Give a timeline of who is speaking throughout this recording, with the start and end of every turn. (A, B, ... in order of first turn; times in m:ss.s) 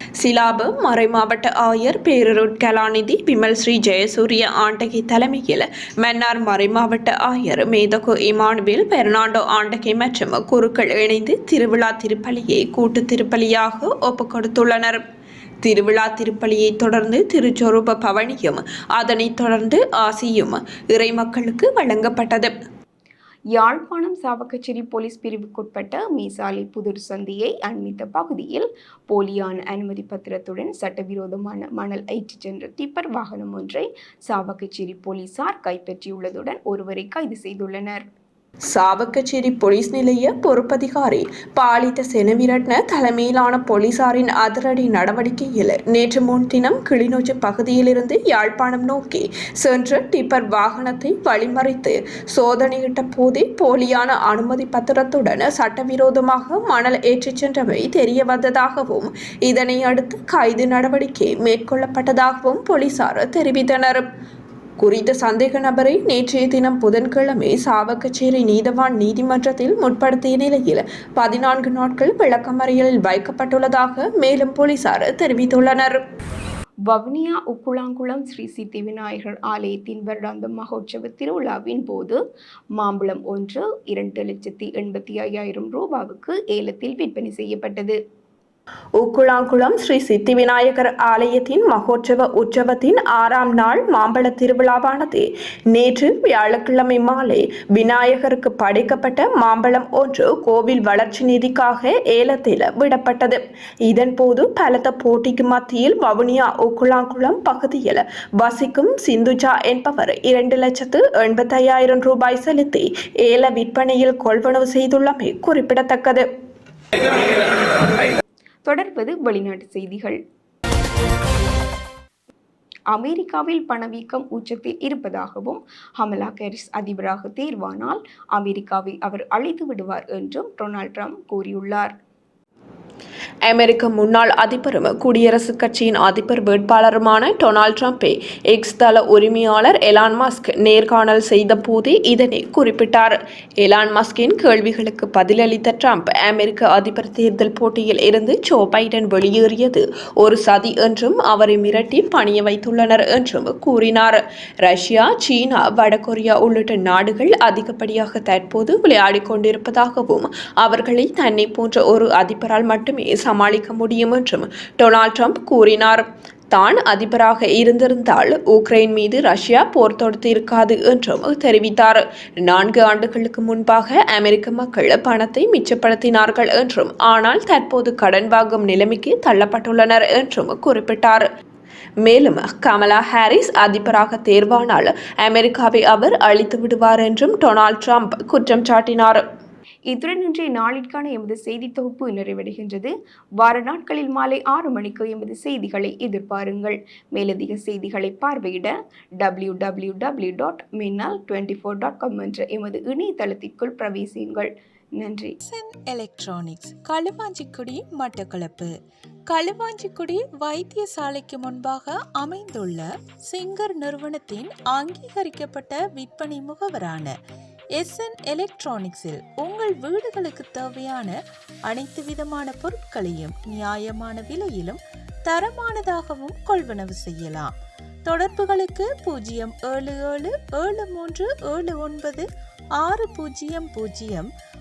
0:00.2-0:15.0 A
0:15.6-0:22.5 A
0:23.6-0:33.8 B
0:34.3-0:38.0 B
0:38.7-1:04.0 A
1:04.8-1:16.0 A
1:16.9-1:22.2 B
1:22.8-1:28.0 B
1:29.0-1:56.2 A
1:58.7-2:00.2 B
2:02.9-2:11.9 B
2:13.4-3:01.2 A
3:02.0-3:09.2 A
3:09.9-3:25.3 B
3:25.5-3:28.7 C
3:29.3-3:37.1 C
3:37.8-3:47.5 C
3:48.0-3:52.2 C
3:52.8-3:54.3 C